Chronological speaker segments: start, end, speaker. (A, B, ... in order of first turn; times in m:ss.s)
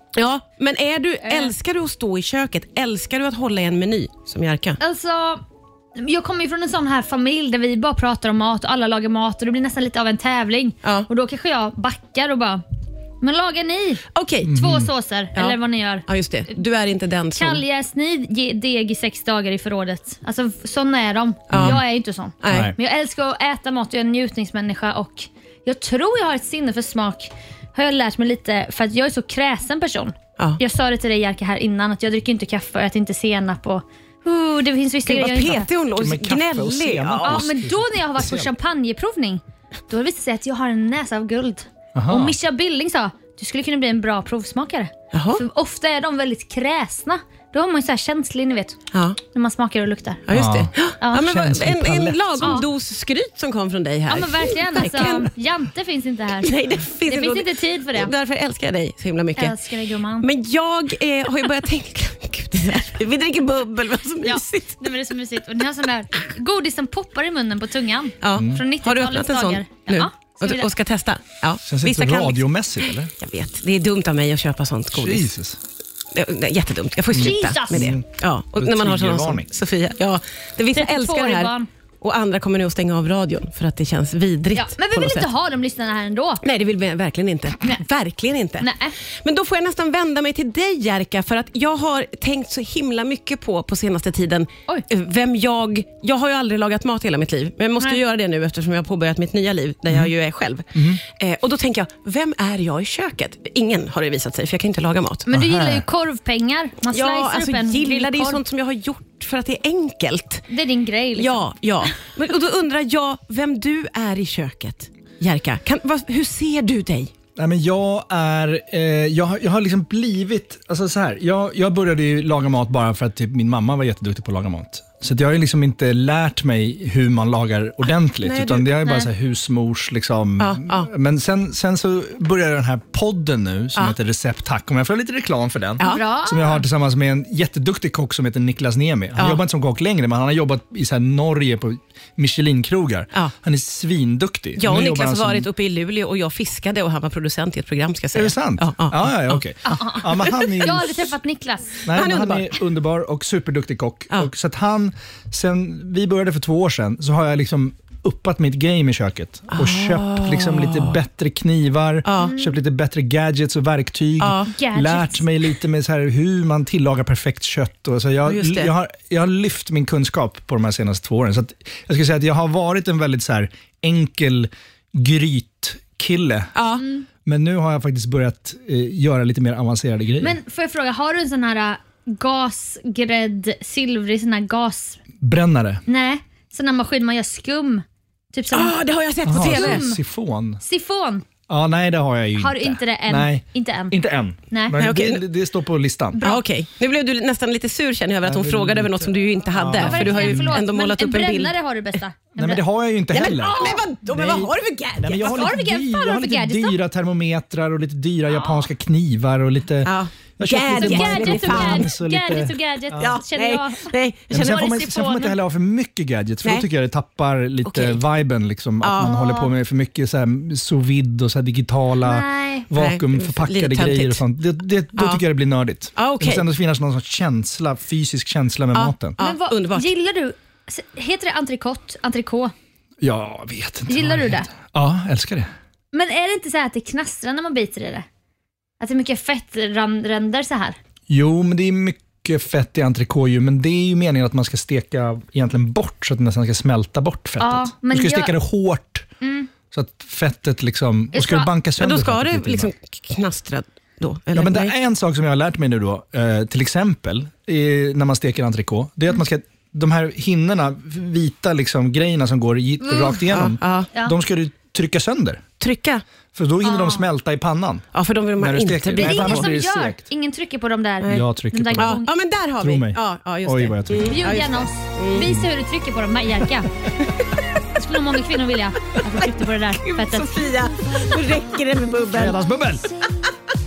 0:00.1-0:04.8 A
0:01.2-0:01.5 B
0:04.8-0:05.4 B
0:06.0-0:12.6 B
0:10.8-0:11.1 A
0:13.2-0:16.0 B
0:14.1-0:14.6 A
0:14.4-0:14.9 C
0:15.3-0:17.6 A
0:17.4-0:35.7 B
0:21.5-0:21.8 A
0:21.5-0:21.8 C
0:22.4-0:22.7 A
0:22.5-0:22.7 C
0:35.0-0:37.5 A
0:35.9-0:38.5 C
0:37.2-0:48.8 B
0:41.9-0:42.4 C
0:45.1-0:45.4 A
0:48.9-0:49.2 A
0:49.3-0:50.2 B
0:50.3-0:55.3 A
0:50.3-0:52.6 C
0:51.0-0:51.2 B
0:54.1-0:56.5 B
0:56.4-0:59.6 A
0:57.0-0:58.1 B
0:59.4-1:00.3 B
1:00.2-1:04.8 A
1:04.2-1:10.7 B
1:08.2-1:15.3 A
1:08.3-1:08.6 C
1:11.6-1:13.1 C
1:14.9-1:15.6 C
1:16.1-1:25.3 A
1:17.1-1:19.5 C
1:17.2-1:17.9 B
1:20.7-1:21.7 B
1:24.5-1:26.4 B
1:26.4-1:45.3 A
1:28.6-1:29.0 B
1:40.7-1:41.0 C
1:45.3-1:48.4 B
1:45.3-1:45.8 C
1:46.9-1:50.4 A
1:50.5-1:51.4 B
1:51.2-1:57.1 A
1:57.4-2:25.5 C
2:08.2-2:08.7 A
2:10.4-2:10.9 A
2:15.8-2:16.0 A
2:15.8-2:16.6 B
2:24.6-2:29.4 A
2:28.1-2:31.1 C
2:29.6-2:31.8 B
2:31.8-2:56.6 C
2:31.9-2:32.6 A
2:39.5-2:41.0 A
2:42.0-2:42.3 A
2:42.2-2:42.6 B
2:44.2-2:44.5 A
2:44.5-2:45.2 B
2:48.2-2:48.7 A
2:56.5-2:56.8 A
2:56.8-2:57.0 B
2:57.2-3:00.4 C
3:00.2-3:05.0 B
3:05.2-3:05.8 C
3:05.9-3:08.7 B
3:08.5-3:09.8 A
3:09.2-3:10.6 C
3:09.3-3:10.0 B
3:10.6-3:11.2 B
3:11.5-3:16.2 C
3:12.4-3:14.0 B
3:14.5-3:14.8 B
3:14.8-3:15.2 A
3:16.1-3:16.4 B
3:16.2-3:21.5 A
3:18.2-3:20.6 C
3:19.8-3:22.6 B
3:22.4-3:33.2 C
3:23.1-3:25.5 A
3:23.2-3:23.8 B
3:25.2-3:26.8 B
3:28.3-3:28.7 B
3:29.8-3:31.9 A
3:30.7-3:35.4 B
3:33.0-3:34.6 A
3:34.3-3:49.2 C
3:37.6-3:38.0 A
3:38.8-3:39.1 A
3:39.0-3:39.5 B
3:42.0-3:42.7 B
3:42.7-3:44.2 A
3:44.9-3:45.2 A
3:45.9-3:46.4 A
3:48.7-3:49.9 A
3:49.2-3:52.5 B
3:53.0-3:55.5 C
3:53.9-3:54.5 B
3:55.9-3:58.0 B
3:58.8-4:00.8 B
4:01.1-4:09.1 C
4:07.4-4:08.3 B
4:09.2-4:09.5 B
4:09.7-4:12.7 C
4:11.1-4:11.5 B
4:11.8-4:14.7 A
4:14.3-4:25.4 C
4:22.8-4:23.4 B
4:23.3-4:23.9 A
4:25.6-4:26.0 A
4:26.3-4:27.8 C
4:26.6-4:27.0 B
4:27.9-4:29.5 A
4:28.4-4:30.0 C
4:29.0-4:32.1 B
4:31.0-4:35.3 A
4:31.1-4:32.0 C
4:32.6-4:34.3 C
4:34.0-4:36.7 B
4:35.2-4:35.5 C
4:37.7-4:40.5 B
4:39.8-4:42.4 A
4:42.1-4:42.9 C